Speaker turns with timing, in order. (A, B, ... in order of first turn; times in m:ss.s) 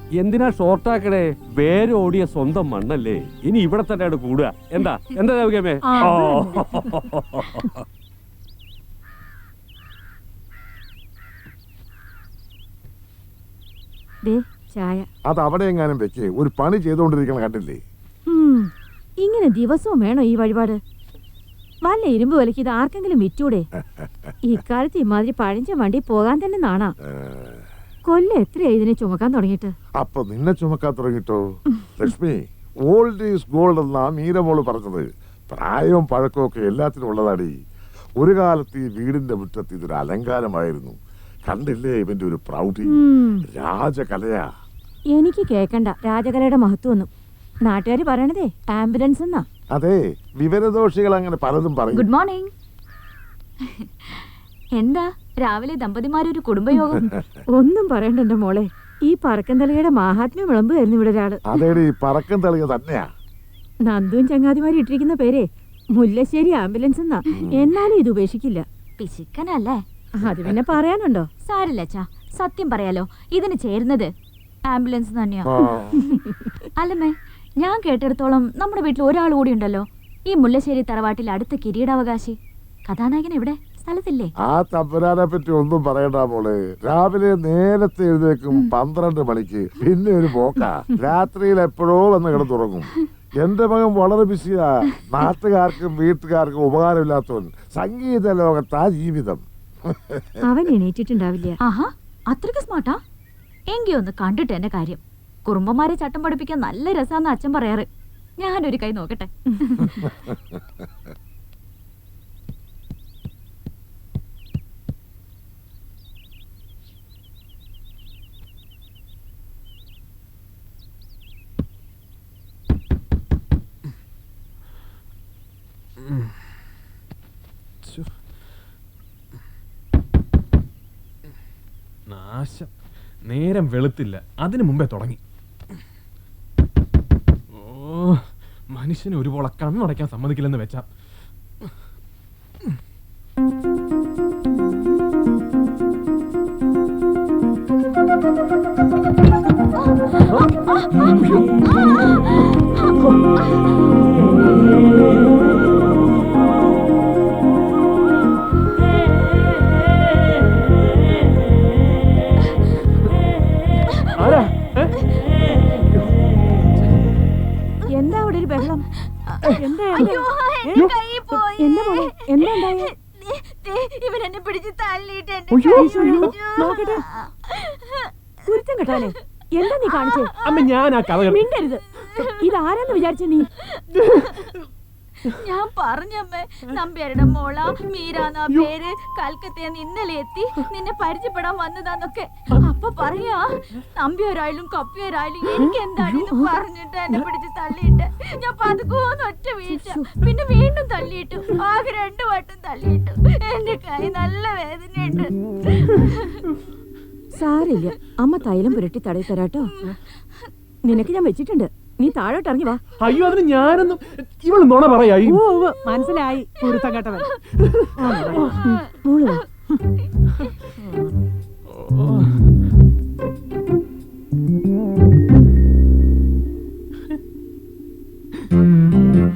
0:00.2-0:07.8 A
0:05.9-0:06.4 B
0:14.2-0:15.1 C
0:15.3-0:17.8 D
0:18.3-0:18.7 C
0:19.2-0:20.8 C
0:21.9-0:23.7 C
0:24.5-0:26.9 C
0:27.1-0:27.6 D
0:28.1-0:29.7 C
0:30.0-0:31.4 D
0:32.0-0:37.5 D
0:38.2-0:44.5 D
0:42.9-0:43.5 C
0:45.1-0:47.1 C
0:47.7-0:49.5 C
0:49.7-0:52.0 D
0:51.9-0:52.5 E
0:53.8-0:54.2 E
0:54.8-0:57.0 E
0:57.0-1:01.4 C
1:01.5-1:03.0 D
1:03.9-1:05.5 C
1:06.0-1:08.6 C
1:07.4-1:07.7 D
1:09.0-1:09.8 E
1:10.2-1:11.3 C
1:10.2-1:10.6 D
1:11.5-1:14.1 E
1:14.7-1:15.5 E
1:15.5-1:16.0 D
1:16.8-1:22.4 E
1:22.9-1:24.3 E
1:24.4-1:40.3 D
1:40.4-1:41.6 C
1:41.6-1:43.0 E
1:43.7-1:47.9 E
1:48.4-1:50.1 E
2:06.0-2:06.3 F
2:07.8-2:08.1 F
2:12.1-2:12.7 F
2:13.3-2:15.2 F
2:17.5-2:20.9 F
2:30.4-2:33.7 E
2:44.2-2:44.9 F
2:47.9-2:48.8 C
2:49.3-2:58.1 E
2:49.6-2:50.2 B
2:49.9-2:50.9 C
2:51.6-2:52.9 C
2:55.5-2:56.3 F
2:55.7-2:56.3 C
2:56.5-2:57.0 B
2:58.5-3:00.3 C
3:00.0-3:00.7 E
3:00.4-3:01.4 F
3:01.3-3:01.8 C
3:02.0-3:02.4 E
3:02.4-3:03.5 C
3:03.9-3:04.5 E
3:05.2-3:26.4 E
3:19.7-3:20.0 C
3:27.4-3:29.7 C
3:30.8-3:32.8 C
3:33.0-3:35.4 F
3:35.3-3:37.3 B
3:37.6-3:38.5 F
3:38.0-3:38.5 B
3:38.6-3:39.4 C
3:41.7-3:42.3 F